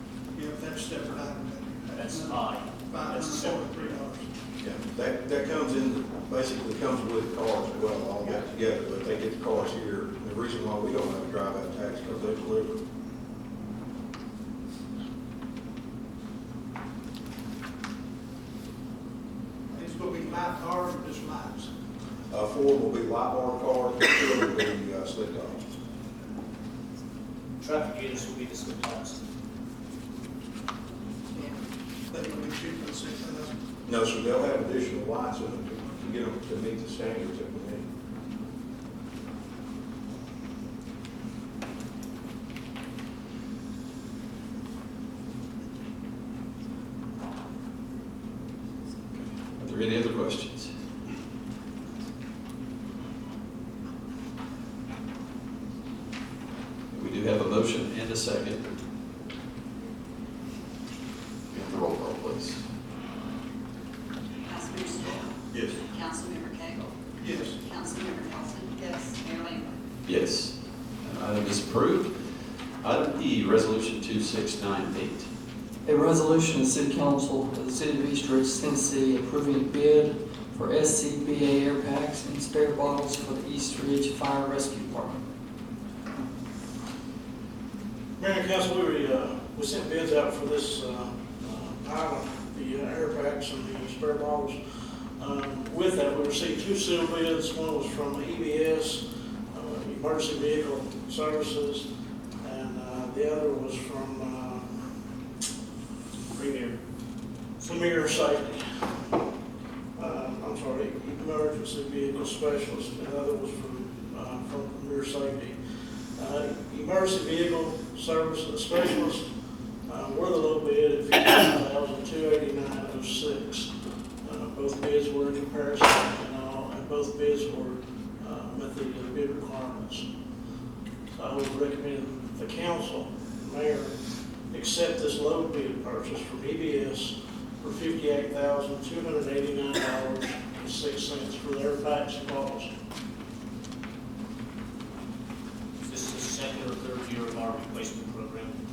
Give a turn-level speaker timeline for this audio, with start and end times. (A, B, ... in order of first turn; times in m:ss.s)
0:00.3-0:04.2 A
0:01.9-0:03.9 B
0:04.6-0:12.8 C
0:19.7-0:21.7 A
0:22.3-0:25.6 C
0:27.6-0:29.2 B
0:32.1-0:33.5 A
0:33.8-0:37.8 C
0:49.2-0:50.7 D
0:56.9-0:58.6 D
1:01.5-1:02.6 D
1:04.5-1:05.3 E
1:06.1-1:06.8 E
1:07.2-1:07.6 A
1:07.8-1:09.6 E
1:10.0-1:12.1 D
1:12.8-1:15.3 D
1:15.8-1:25.2 F
1:28.2-1:34.6 G
1:35.2-1:41.9 G
1:42.4-1:44.6 G
1:46.4-1:46.8 B
1:47.6-1:48.4 B
1:47.6-1:48.6 G
1:50.0-1:55.6 G
1:56.2-1:59.2 G
1:59.9-2:03.7 G
2:04.2-2:10.0 G
2:11.1-2:13.9 G
2:14.5-2:22.7 G
2:25.9-2:28.5 B